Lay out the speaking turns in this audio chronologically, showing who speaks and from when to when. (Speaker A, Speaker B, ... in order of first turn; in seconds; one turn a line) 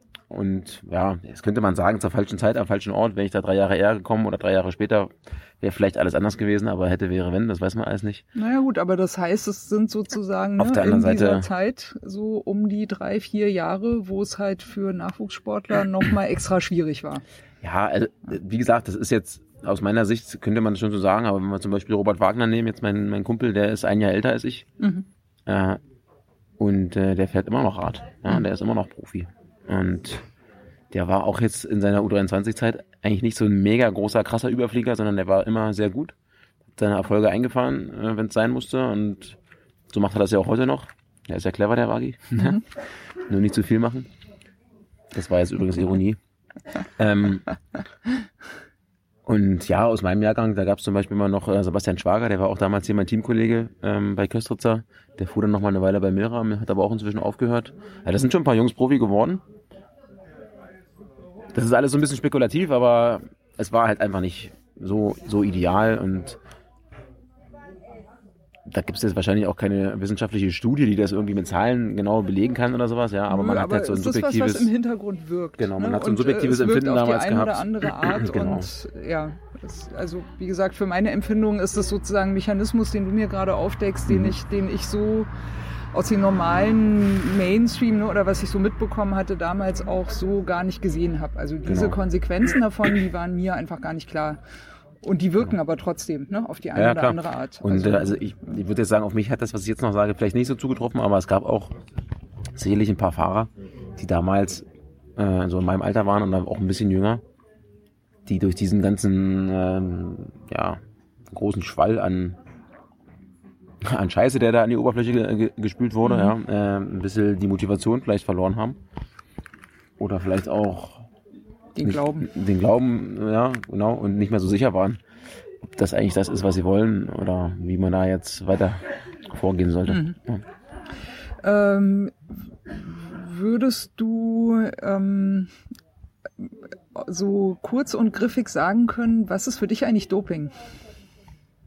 Speaker A: 0.3-8.2
Speaker B: 8.3-17.2
Speaker A: 10.6-11.5
Speaker A: 17.6-24.7
Speaker B: 24.8-25.1
Speaker A: 25.4-25.8
Speaker A: 26.6-30.2
Speaker A: 30.9-36.1
Speaker A: 36.8-39.4
Speaker A: 39.9-42.6
Speaker A: 43.2-44.1
Speaker A: 45.1-46.2
Speaker A: 47.0-47.5
Speaker A: 49.2-59.4
Speaker A: 61.5-66.4
Speaker A: 68.7-74.7
Speaker B: 73.3-85.3
Speaker A: 75.6-78.7
Speaker A: 84.1-84.3
Speaker B: 85.9-94.4
Speaker A: 91.7-92.0
Speaker B: 95.0-98.2
Speaker A: 96.7-101.7
Speaker A: 102.5-107.2
Speaker A: 108.2-110.8
Speaker A: 111.3-112.4
Speaker A: 113.8-118.8
Speaker B: 116.0-116.3
Speaker A: 120.0-121.1
Speaker B: 121.7-122.3
Speaker A: 121.8-125.0
Speaker A: 125.6-130.4
Speaker B: 129.9-130.2
Speaker B: 131.4-135.5
Speaker B: 136.4-140.5